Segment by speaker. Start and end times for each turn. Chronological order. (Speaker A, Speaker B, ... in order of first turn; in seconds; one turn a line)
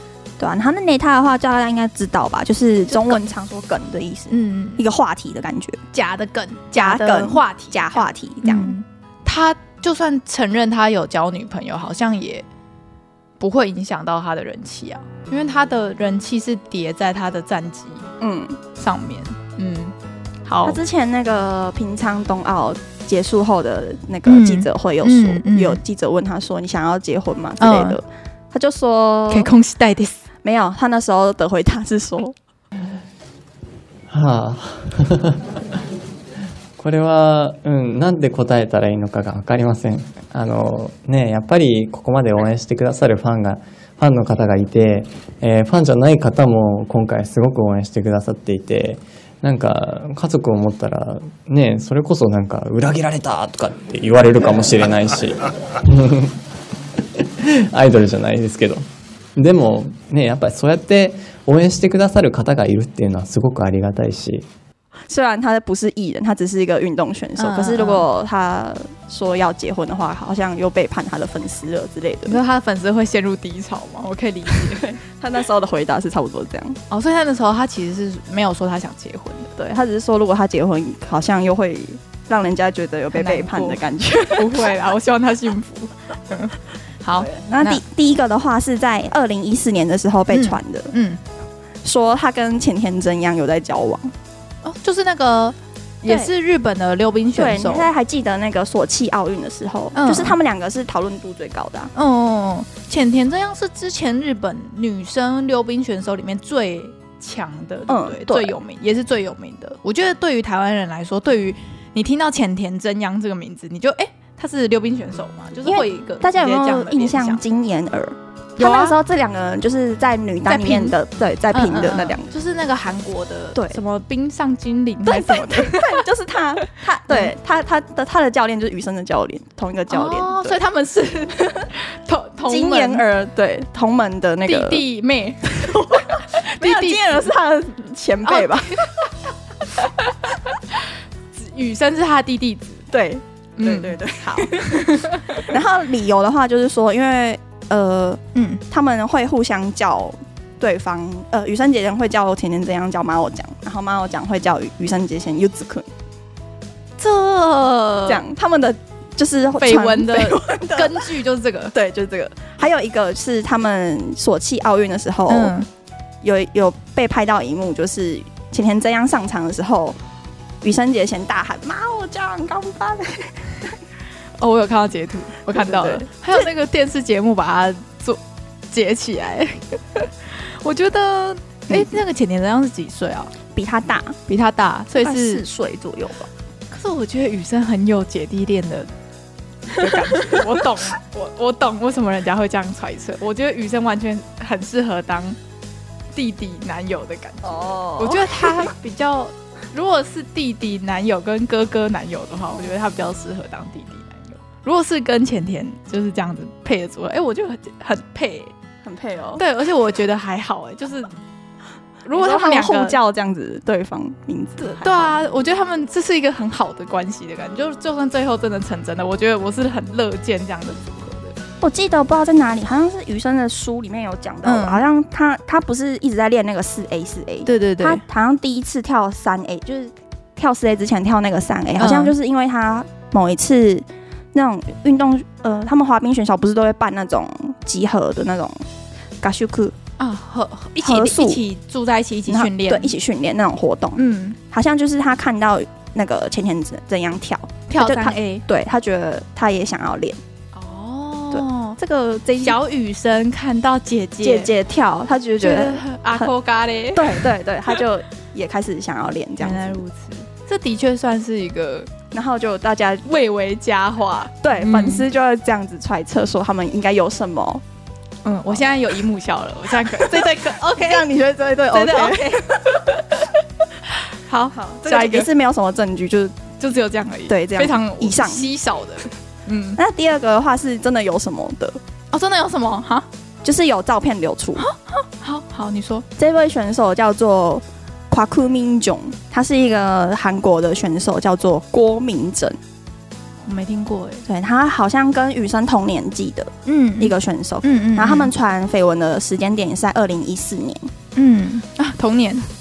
Speaker A: 0.4-5.8
Speaker B: 2.9-3.2
Speaker B: 4.3-4.8
Speaker B: 5.9-12.4
Speaker A: 6.8-8.7
Speaker B: 13.4-18.1
Speaker A: 18.2-18.6
Speaker B: 18.8-19.9
Speaker B: 20.4-20.8
Speaker A: 20.6-29.5
Speaker B: 24.2-25.8
Speaker B: 27.6-28.0
Speaker B: 29.3-30.2
Speaker A: 30.4-32.4
Speaker C: 34.1-35.4
Speaker C: 36.8-56.4
Speaker C: 57.2-58.8
Speaker C: 59.4-64.4
Speaker A: 65.1-72.4
Speaker B: 67.4-68.0
Speaker B: 72.2-75.0
Speaker A: 74.6-76.8
Speaker B: 76.9-79.5
Speaker A: 79.6-84.7
Speaker B: 83.1-87.8
Speaker A: 87.2-90.9
Speaker B: 90.3-91.2
Speaker A: 91.8-94.1
Speaker B: 94.6-97.9
Speaker A: 96.0-96.3
Speaker A: 97.3-101.9
Speaker B: 99.9-100.3
Speaker B: 101.9-117.4
Speaker A: 107.9-108.5
Speaker A: 115.6-122.3
Speaker B: 118.6-119.0
Speaker B: 120.5-121.0
Speaker B: 121.5-126.0
Speaker A: 125.0-130.6
Speaker B: 129.9-133.0
Speaker A: 132.5-134.8
Speaker B: 134.4-137.3
Speaker A: 135.5-138.9
Speaker B: 138.2-139.0
Speaker B: 139.8-140.8
Speaker B: 141.3-142.9
Speaker A: 142.9-155.9
Speaker B: 143.6-145.4
Speaker B: 148.3-148.6
Speaker B: 157.0-158.2
Speaker A: 158.1-161.1
Speaker B: 159.6-161.8
Speaker A: 161.7-165.5
Speaker B: 165.3-165.7
Speaker A: 166.2-170.0
Speaker A: 170.6-173.7
Speaker B: 174.4-178.2
Speaker A: 175.5-176.1
Speaker B: 178.7-183.3
Speaker A: 181.7-181.9
Speaker A: 183.5-184.2
Speaker B: 184.3-185.4
Speaker A: 184.9-186.3
Speaker B: 186.7-188.9
Speaker B: 189.7-195.4
Speaker B: 196.1-208.5
Speaker A: 197.4-198.7
Speaker A: 208.8-209.4
Speaker B: 209.3-211.1
Speaker B: 212.0-213.0
Speaker A: 212.1-215.1
Speaker B: 214.6-221.3
Speaker A: 221.6-238.7
Speaker B: 224.4-224.8
Speaker B: 227.4-228.0
Speaker B: 231.8-232.2
Speaker A: 239.2-239.8
Speaker B: 240.0-242.9
Speaker A: 240.8-241.4
Speaker A: 242.3-250.2
Speaker B: 244.0-244.4
Speaker B: 247.7-248.4
Speaker B: 250.5-251.8
Speaker A: 251.3-252.6
Speaker B: 252.4-254.5
Speaker A: 254.2-256.3
Speaker B: 255.4-257.3
Speaker A: 256.9-259.8
Speaker B: 259.4-261.9
Speaker A: 262.1-263.1
Speaker B: 263.0-265.0
Speaker A: 264.4-267.6
Speaker B: 268.2-271.0
Speaker A: 269.8-272.9
Speaker B: 271.7-273.3
Speaker B: 273.9-275.3
Speaker A: 274.5-276.4
Speaker B: 276.6-279.8
Speaker A: 277.3-278.5
Speaker A: 279.8-281.8
Speaker B: 282.1-283.1
Speaker A: 283.4-284.7
Speaker B: 284.6-286.1
Speaker A: 286.2-292.6
Speaker B: 293.4-294.2
Speaker A: 294.2-300.9
Speaker B: 296.6-298.3
Speaker B: 301.1-302.4